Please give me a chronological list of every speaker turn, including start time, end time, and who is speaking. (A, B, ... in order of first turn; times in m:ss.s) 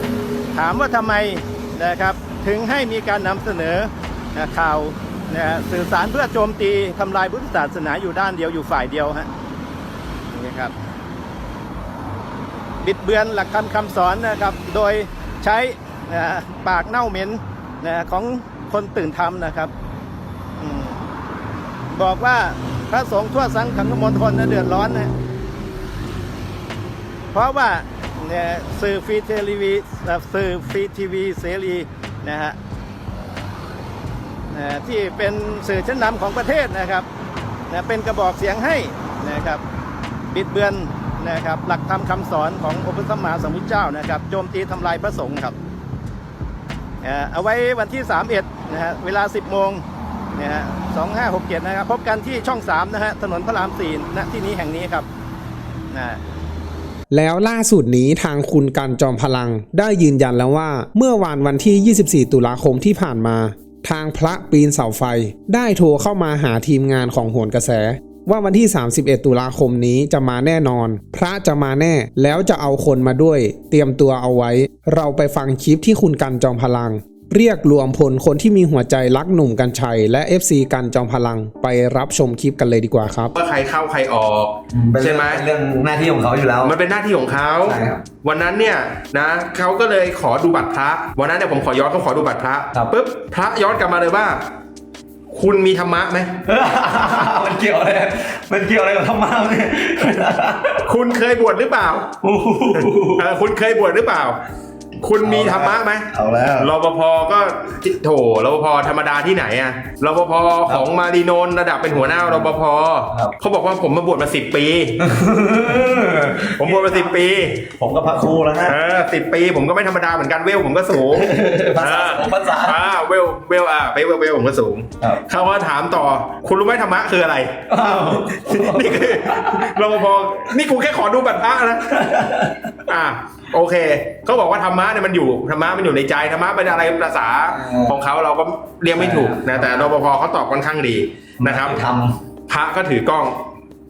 0:00.5-0:09.3 A
0:10.3-0:10.7 A
0:12.8-0:19.7 A
0:20.6-0:21.0 A
0:21.9-0:25.1 A
0:27.3-0:32.6 A
0:34.5-0:37.1 A
0:37.7-0:39.6 A
0:40.3-0:45.6 A
0:47.0-0:49.8 A
0:50.4-0:55.0 A
0:55.9-0:56.2 A
0:57.1-1:23.3 B
1:23.3-1:25.4 C
1:24.7-1:26.8 D
1:26.6-1:34.4 C
1:27.6-1:28.0 D
1:35.3-1:36.3 C
1:36.4-1:40.8 D
1:40.8-1:42.1 C
1:42.2-1:43.3 D
1:42.8-1:44.4 C
1:45.0-1:55.0 C
1:45.2-1:46.7 D
1:52.1-1:52.4 D
1:55.0-1:57.1 D
1:56.4-1:57.6 C
1:57.6-1:58.8 D
1:58.6-2:07.6 C
2:01.1-2:02.9 D
2:07.7-2:09.6 D
2:08.4-2:12.1 C
2:12.0-2:12.7 D
2:12.8-2:21.8 C
2:17.5-2:17.9 D
2:18.9-2:19.9 D
2:21.4-2:22.2 D
2:22.5-2:23.3 C